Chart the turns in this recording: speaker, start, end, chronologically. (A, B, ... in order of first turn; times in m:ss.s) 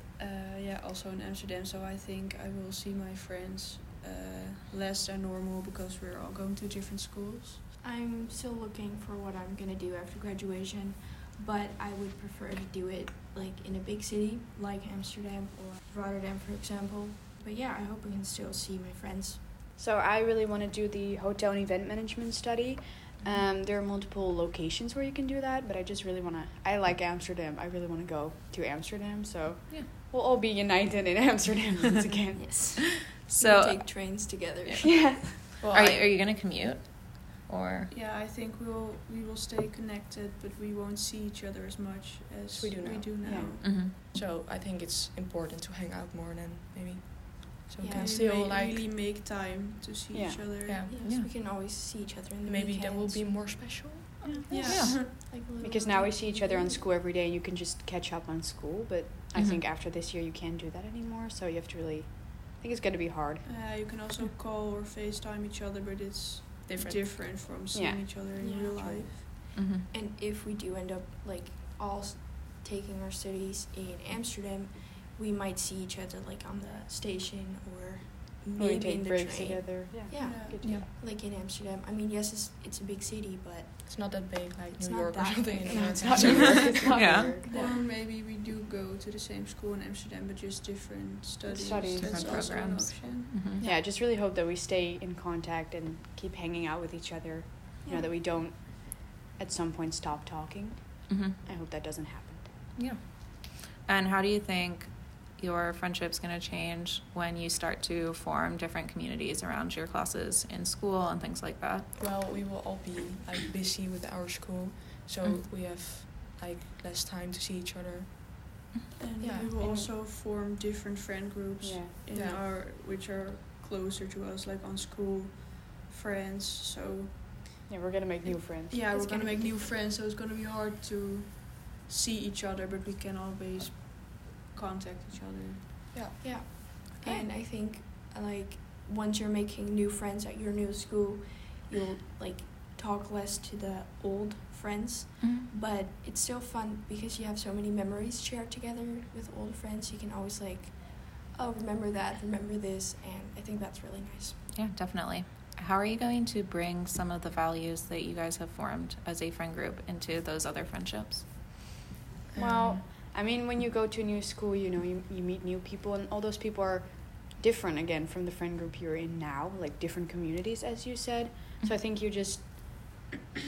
0:00.2-0:07.6 A
0:07.8-0:19.4 B
0:19.8-0:32.5 C
0:32.4-0:35.6 B
0:33.2-0:34.0 D
0:34.6-0:37.9 D
0:35.6-0:36.0 E
0:37.9-0:43.6 A
0:42.5-0:48.8 E
0:43.2-0:43.6 C
0:43.6-0:43.9 D
0:47.8-0:48.1 B
0:47.9-0:50.8 A
0:50.1-0:50.4 C
0:50.6-0:50.9 E
0:50.9-0:53.5 B
0:51.0-0:51.3 D
0:52.4-0:54.8 E
0:54.3-0:56.8 B
0:54.5-0:55.2 A
0:54.7-0:54.9 D
0:55.6-1:03.4 C
1:03.4-1:09.3 A
1:06.6-1:07.5 E
1:07.7-1:08.0 C
1:08.4-1:24.2 B
1:09.5-1:09.9 D
1:18.6-1:20.9 C
1:20.1-1:20.6 A
1:23.8-1:26.8 E
1:24.7-1:27.8 B
1:25.7-1:27.5 C
1:26.9-1:27.3 D
1:27.4-1:33.4 A
1:31.5-1:32.4 C
1:32.0-1:33.6 D
1:33.6-1:42.5 C
1:41.1-1:41.4 D
1:42.8-1:51.8 D
1:51.9-1:58.4 E
1:58.9-2:07.2 A
1:59.2-1:59.6 E
2:01.6-2:01.9 C
2:02.1-2:02.4 E
2:07.7-2:08.8 C
2:08.7-2:15.6 A
2:08.9-2:09.8 B
2:15.9-2:16.2 E
2:16.2-2:34.4 B
2:25.2-2:25.5 D
2:34.5-2:41.2 D
2:42.3-2:42.8 E
2:42.3-2:53.1 C